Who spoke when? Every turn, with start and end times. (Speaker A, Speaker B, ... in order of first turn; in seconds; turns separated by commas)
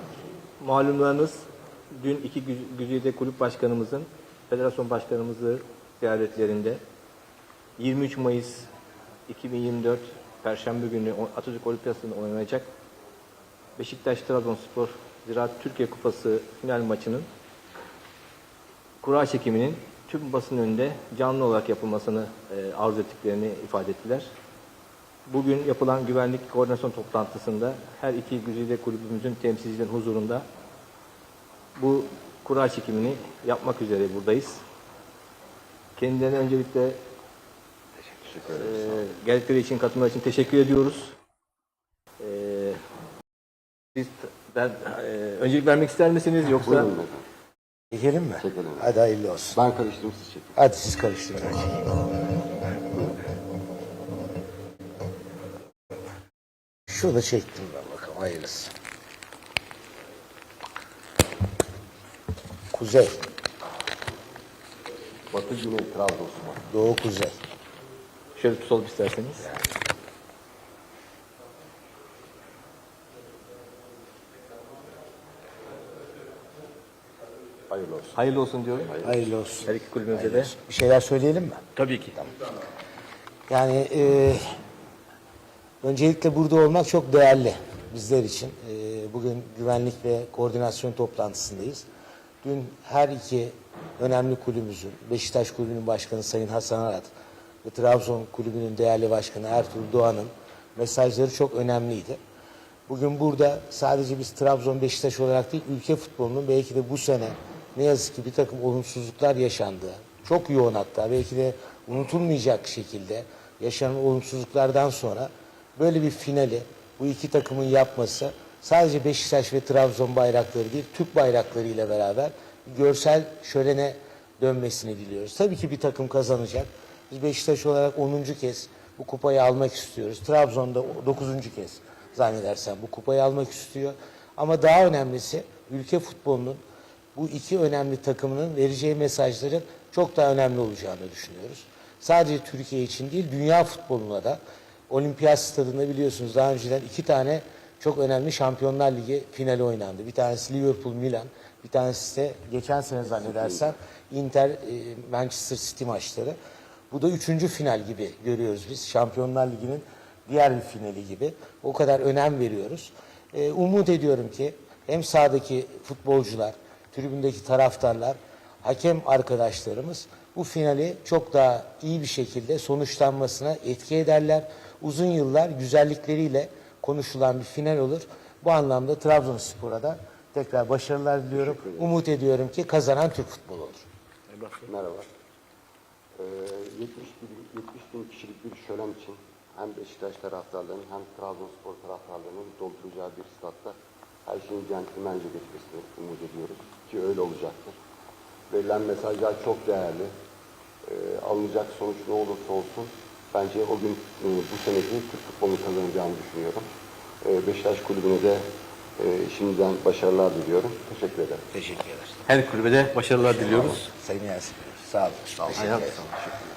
Speaker A: 0.6-6.8, Speaker A: 7.8-8.7, Speaker A: 9.3-12.7, Speaker A: 13.8-17.3, Speaker A: 19.0-24.3, Speaker A: 25.2-30.4, Speaker A: 31.8-34.6, Speaker A: 36.0-37.0, Speaker B: 38.2-38.7, Speaker A: 38.5-41.1, Speaker A: 42.2-42.8, Speaker A: 43.9-46.9, Speaker B: 46.6-47.2, Speaker C: 47.9-49.6, Speaker B: 48.4-48.9, Speaker B: 49.5-50.6, Speaker C: 50.5-52.0, Speaker C: 56.9-58.7, Speaker C: 62.7-63.2, Speaker B: 65.3-66.7, Speaker C: 66.7-67.4, Speaker A: 68.3-69.5, Speaker B: 77.7-78.1, Speaker A: 78.1-79.0, Speaker B: 78.9-79.2, Speaker C: 79.0-81.7, Speaker A: 79.6-80.5, Speaker A: 81.8-82.2, Speaker C: 83.5-84.5, Speaker C: 85.8-91.8, Speaker C: 92.4-97.1, Speaker C: 97.6-102.2, Speaker C: 102.9-136.6, Speaker C: 137.1-156.4, Speaker B: 153.4-153.7, Speaker C: 156.9-183.9, Speaker B: 181.3-181.9, Speaker B: 184.6-185.1, Speaker B: 186.2-197.8, Speaker B: 198.5-200.1, Speaker B: 200.8-206.7, Speaker B: 207.2-208.4, Speaker B: 209.0-211.4, Speaker C: 211.5-212.2, Speaker A: 212.2-213.9, Speaker C: 213.2-216.0, Speaker A: 215.5-216.4